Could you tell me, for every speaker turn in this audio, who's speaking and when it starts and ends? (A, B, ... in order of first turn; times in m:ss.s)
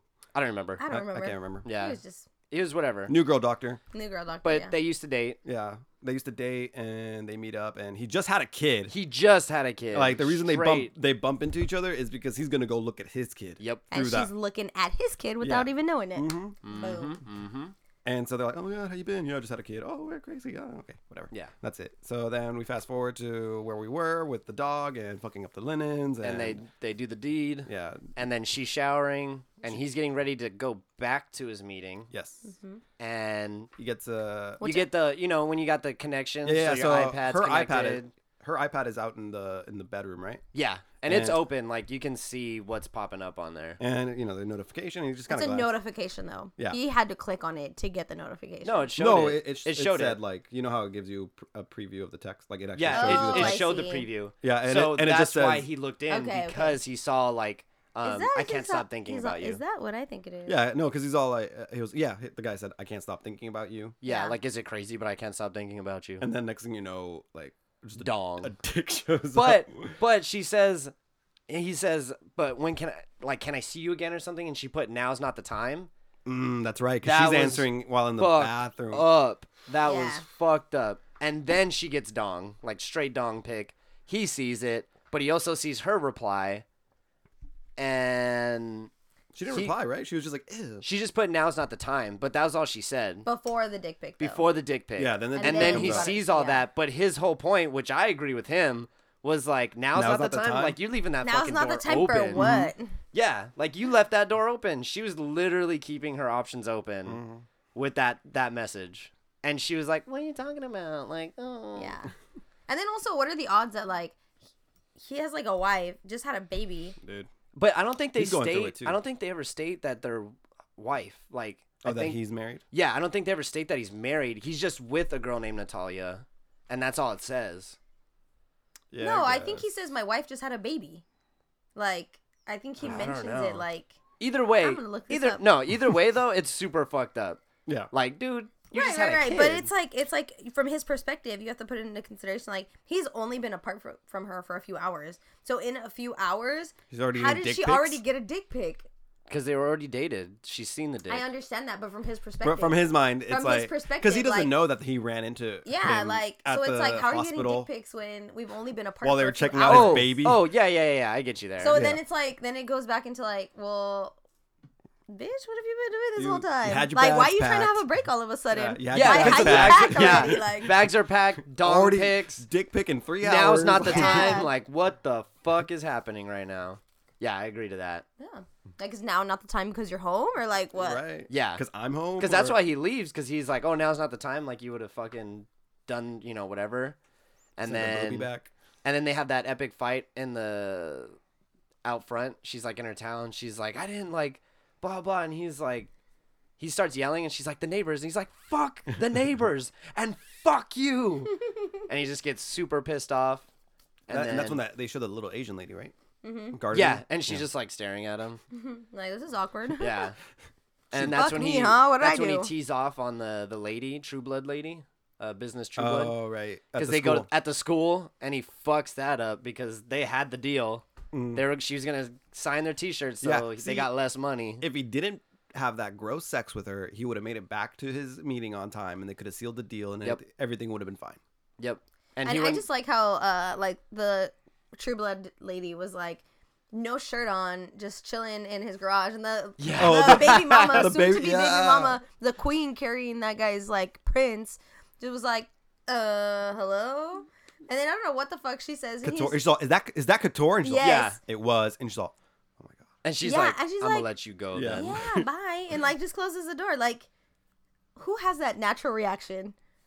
0:00.4-0:00.8 A
0:00.8-0:02.3 B
0:00.9-0:01.7 C
0:01.6-0:02.0 A
0:02.5-0:03.2 A
0:03.1-0:03.8 C
0:03.9-0:04.8 B
0:04.4-0:05.4 A
0:05.4-0:08.9 C
0:08.9-0:10.9 A
0:09.9-0:14.3 C
0:13.6-0:13.9 A
0:13.9-0:17.2 B
0:15.4-0:16.6 C
0:16.6-0:17.7 A
0:18.0-0:26.6 C
0:26.2-0:32.1 A
0:27.7-0:28.1 C
0:32.1-0:32.5 C
0:32.4-0:32.8 B
0:33.0-0:33.7 A
0:33.8-0:34.6 C
0:34.6-0:34.9 B
0:34.6-0:38.1 A
0:36.4-0:40.4 C
0:40.5-0:43.8 A
0:41.1-0:41.4 C
0:43.8-0:45.7 C
0:45.3-0:48.9 B
0:48.6-0:50.2 A
0:49.0-0:53.7 C
0:52.8-0:59.6 A
0:52.9-0:54.1 B
0:54.4-0:55.7 C
0:56.1-0:56.8 B
0:58.0-1:00.6 B
1:00.5-1:04.0 C
1:04.0-1:06.3 A
1:04.0-1:04.4 B
1:06.2-1:10.0 C
1:08.0-1:08.5 A
1:09.3-1:10.9 A
1:11.5-1:15.9 A
1:16.3-1:19.1 C
1:17.0-1:26.6 A
1:19.8-1:20.2 B
1:27.8-1:28.9 A
1:29.3-1:30.8 C
1:29.5-1:29.7 A
1:30.8-1:33.3 A
1:33.2-1:34.5 B
1:34.2-1:42.6 A
1:35.0-1:36.2 C
1:35.4-1:36.6 B
1:40.0-1:40.8 C
1:41.2-1:43.0 B
1:42.4-1:42.7 C
1:43.1-1:47.2 A
1:47.1-1:47.5 C
1:47.8-1:52.0 A
1:51.8-1:52.1 B
1:52.7-1:54.2 B
1:55.0-1:57.0 B
1:57.0-1:57.3 C
1:57.6-2:02.2 A
1:58.2-1:59.0 C
2:01.8-2:02.6 C
2:02.7-2:07.8 A
2:08.9-2:09.6 C
2:09.0-2:11.0 B
2:11.8-2:14.0 B
2:12.8-2:13.7 A
2:14.2-2:17.4 A
2:14.6-2:15.4 B
2:17.9-2:19.7 A
2:18.7-2:28.9 B
2:26.9-2:28.0 C
2:29.3-2:31.3 A
2:31.1-2:34.6 B
2:32.4-2:37.7 C
2:35.6-2:40.1 B
2:39.0-2:40.4 C
2:39.6-2:41.8 A
2:41.6-2:44.2 B
2:41.7-2:42.0 C
2:45.1-2:50.8 B
2:46.2-2:47.8 C
2:48.5-2:50.9 C
2:48.9-2:52.4 A
2:51.6-2:54.4 C
2:53.2-2:58.0 A
2:53.8-2:54.5 B
2:58.2-3:01.0 B
3:00.8-3:02.6 C
3:01.3-3:01.6 A
3:02.2-3:07.0 A
3:07.6-3:08.3 A
3:07.6-3:08.5 C
3:08.8-3:11.2 A
3:11.8-3:15.9 A
3:16.6-3:23.5 A
3:24.1-3:24.6 A
3:24.1-3:25.9 C
3:26.2-3:26.6 B
3:26.5-3:27.4 C
3:26.7-3:28.4 A
3:28.5-3:30.1 B
3:29.8-3:30.2 A
3:30.9-3:36.2 A
3:30.9-3:31.2 C
3:31.0-3:32.5 B
3:35.8-3:37.3 C
3:36.8-3:40.8 A
3:41.1-3:41.4 C
3:41.4-3:44.6 A
3:43.2-3:43.9 C
3:44.6-3:51.2 C
3:51.6-3:52.6 A
3:52.2-4:09.4 B
3:59.6-4:00.9 A
3:59.8-4:02.0 C
4:09.0-4:12.9 C
4:10.6-4:11.2 B
4:10.8-4:11.2 A
4:13.0-4:15.0 A
4:13.2-4:14.1 B
4:14.5-4:15.3 C
4:14.7-4:17.1 B
4:18.0-4:19.6 B